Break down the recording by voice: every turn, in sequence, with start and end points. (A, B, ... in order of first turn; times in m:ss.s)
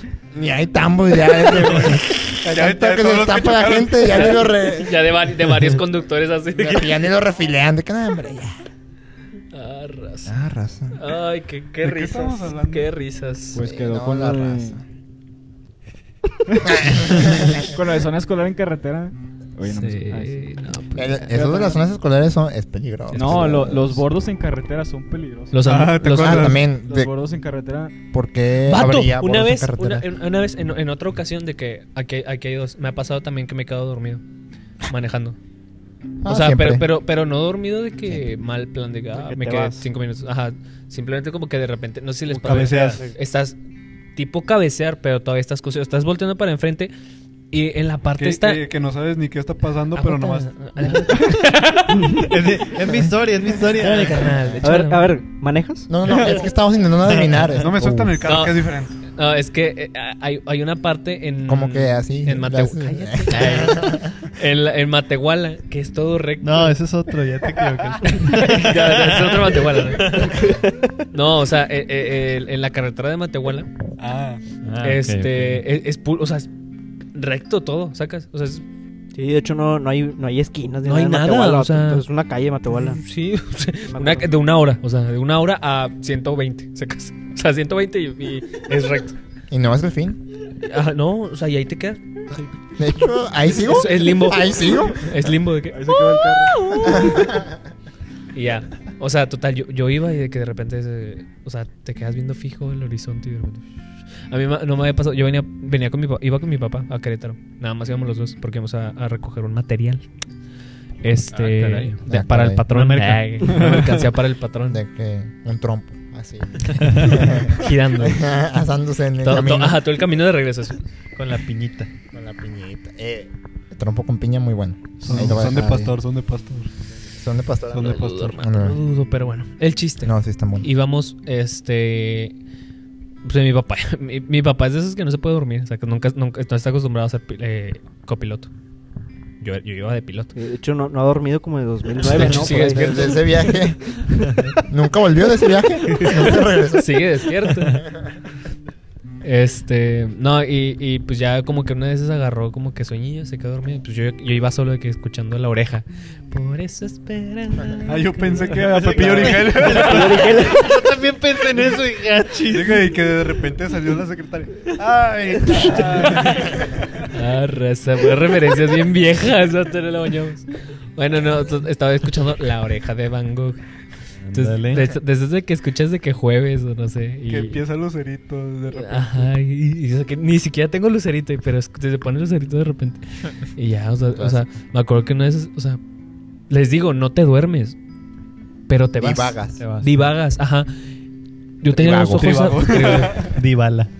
0:00.3-0:05.0 A
0:01.9-0:04.3 B
0:04.1-0:07.0 C
0:06.5-0:08.5 A
0:09.5-0:10.3 C
0:10.2-0:11.0 A
0:10.9-0:13.6 C
0:11.8-0:12.9 B
0:13.5-0:14.8 D
0:13.6-0:14.8 A
0:16.5-0:20.6 D
0:16.8-0:17.6 A
0:19.6-0:21.8 C
0:21.0-0:24.0 A
0:23.1-0:23.6 C
0:23.1-0:25.7 D
0:25.5-0:26.6 C
0:25.6-0:27.0 B
0:26.0-0:27.1 A
0:26.3-0:28.0 D
0:28.1-0:30.1 A
0:28.7-0:34.2 C
0:34.9-0:35.4 C
0:36.2-0:36.8 A
0:36.2-0:43.6 C
0:39.1-0:39.9 E
0:42.3-0:43.1 B
0:42.5-0:43.1 E
0:44.1-0:46.9 C
0:47.5-0:48.6 C
0:48.2-0:51.1 B
0:49.9-0:52.3 C
0:51.9-0:52.3 E
0:52.2-0:54.4 F
0:53.6-0:55.1 C
0:54.4-0:54.6 A
0:54.6-0:55.9 E
0:55.9-0:58.2 A
0:57.0-0:57.6 F
0:57.6-0:59.0 B
0:58.2-1:06.8 C
1:01.5-1:04.1 A
1:06.4-1:10.4 F
1:08.0-1:10.4 C
1:10.2-1:11.0 E
1:11.1-1:13.7 C
1:14.0-1:14.4 B
1:14.6-1:15.6 F
1:14.8-1:16.5 C
1:17.1-1:18.6 C
1:19.1-1:23.0 E
1:20.8-1:22.0 C
1:22.7-1:29.2 C
1:23.9-1:24.3 E
1:29.5-1:30.2 A
1:30.6-1:32.5 C
1:32.3-1:35.2 A
1:33.5-1:37.3 C
1:35.7-1:36.7 D
1:36.8-1:37.5 A
1:38.3-1:43.7 C
1:44.3-1:50.0 C
1:51.0-1:54.8 C
1:51.3-1:52.0 F
1:52.0-1:52.6 A
1:52.7-1:53.9 F
1:53.5-1:54.0 B
1:54.7-1:59.8 A
1:56.8-1:57.2 F
1:56.9-1:58.4 C
1:59.2-2:00.8 C
2:01.1-2:01.9 F
2:02.1-2:05.9 A
2:05.0-2:06.7 B
2:07.1-2:08.8 A
2:07.7-2:08.4 B
2:07.8-2:12.3 C
2:10.0-2:10.7 A
2:13.2-2:18.5 C
2:19.4-2:20.3 C
2:20.3-2:24.4 E
2:22.0-2:23.4 C
2:22.1-2:27.8 A
2:26.7-2:27.8 C
2:29.2-2:38.5 C
2:37.8-2:40.4 B
2:38.5-2:42.9 F
2:39.7-2:40.7 E
2:42.5-2:47.1 B
2:45.5-2:46.2 F
2:45.7-2:53.6 C
2:54.2-2:54.9 F
2:54.3-2:57.6 C
2:57.3-2:59.3 B
2:58.7-3:05.8 C
3:04.1-3:04.4 A
3:06.5-3:07.8 C
3:08.7-3:10.7 C
3:09.0-3:09.6 A
3:09.6-3:10.1 F
3:11.6-3:13.3 C
3:11.7-3:12.5 A
3:12.2-3:13.3 B
3:13.1-3:13.9 F